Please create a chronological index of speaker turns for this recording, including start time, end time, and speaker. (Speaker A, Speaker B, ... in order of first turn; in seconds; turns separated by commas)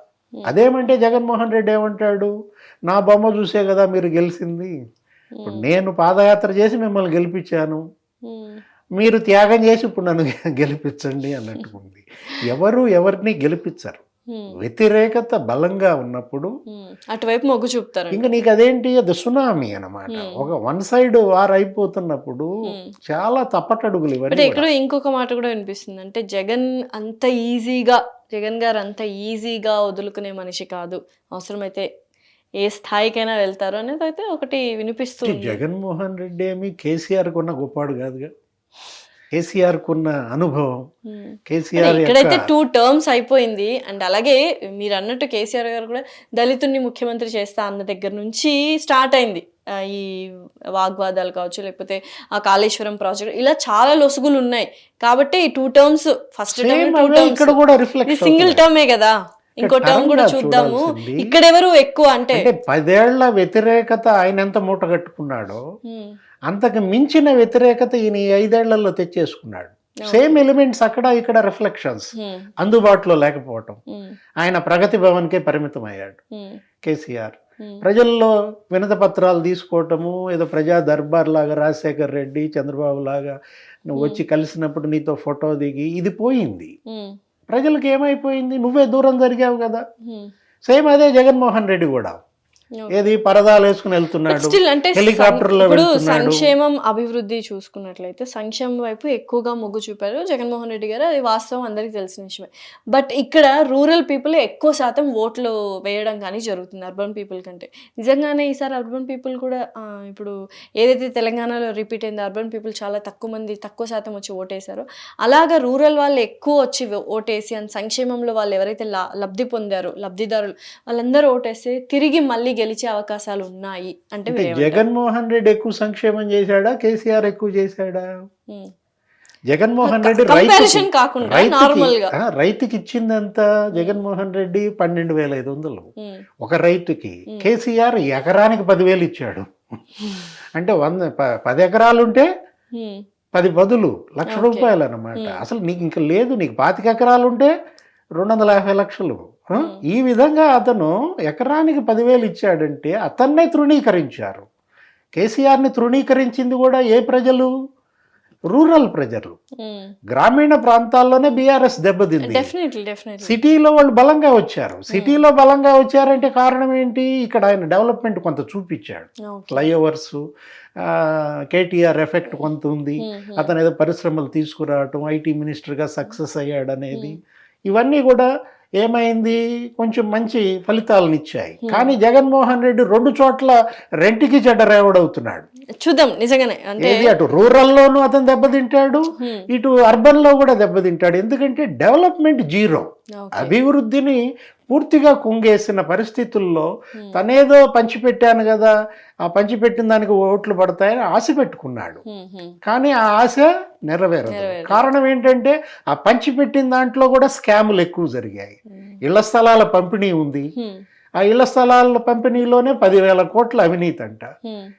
Speaker A: 0.5-2.3, Speaker A: 2.9-4.7, Speaker B: 5.3-5.7, Speaker A: 5.5-7.8, Speaker B: 8.3-8.6, Speaker A: 9.0-14.0, Speaker B: 14.3-14.6, Speaker A: 14.5-16.5, Speaker B: 16.7-18.3, Speaker A: 18.1-22.5, Speaker B: 20.1-20.5, Speaker A: 23.1-24.7, Speaker B: 24.3-31.9, Speaker B: 32.6-35.6, Speaker A: 35.2-38.3, Speaker A: 39.4-40.7, Speaker B: 41.1-50.1, Speaker A: 41.5-42.5, Speaker B: 50.8-62.5, Speaker A: 56.6-58.6, Speaker A: 59.6-61.3, Speaker A: 62.3-65.6, Speaker B: 65.8-66.1, Speaker A: 66.5-72.1, Speaker B: 70.0-70.5, Speaker B: 72.2-72.5, Speaker A: 72.6-73.8, Speaker A: 74.4-76.2, Speaker A: 76.8-83.4, Speaker A: 83.9-86.7, Speaker B: 84.0-84.2, Speaker B: 86.9-87.2, Speaker A: 87.5-89.8, Speaker B: 90.0-90.3, Speaker A: 90.7-92.2, Speaker A: 92.9-96.5, Speaker B: 94.3-124.8, Speaker A: 124.3-128.1, Speaker A: 129.5-135.9, Speaker B: 129.8-132.2, Speaker B: 133.7-134.0, Speaker A: 136.4-139.5, Speaker A: 140.6-142.3, Speaker B: 142.7-143.0, Speaker A: 143.3-147.5, Speaker B: 144.3-145.4, Speaker A: 148.2-154.4, Speaker B: 149.6-149.8, Speaker A: 155.2-157.5, Speaker A: 158.5-159.4, Speaker B: 159.6-159.9, Speaker A: 160.1-162.5, Speaker B: 162.2-163.4, Speaker A: 163.2-170.2, Speaker B: 164.9-165.2, Speaker B: 169.3-169.7, Speaker A: 170.8-177.2, Speaker B: 172.3-173.5, Speaker A: 177.7-178.3, Speaker A: 178.8-185.4, Speaker B: 181.7-182.0, Speaker B: 185.8-187.1, Speaker A: 186.8-198.7, Speaker B: 189.2-189.5, Speaker B: 193.2-193.6, Speaker B: 197.0-197.2, Speaker A: 199.3-202.0, Speaker B: 202.1-202.6, Speaker A: 202.7-210.5, Speaker B: 204.3-204.9, Speaker A: 211.2-214.3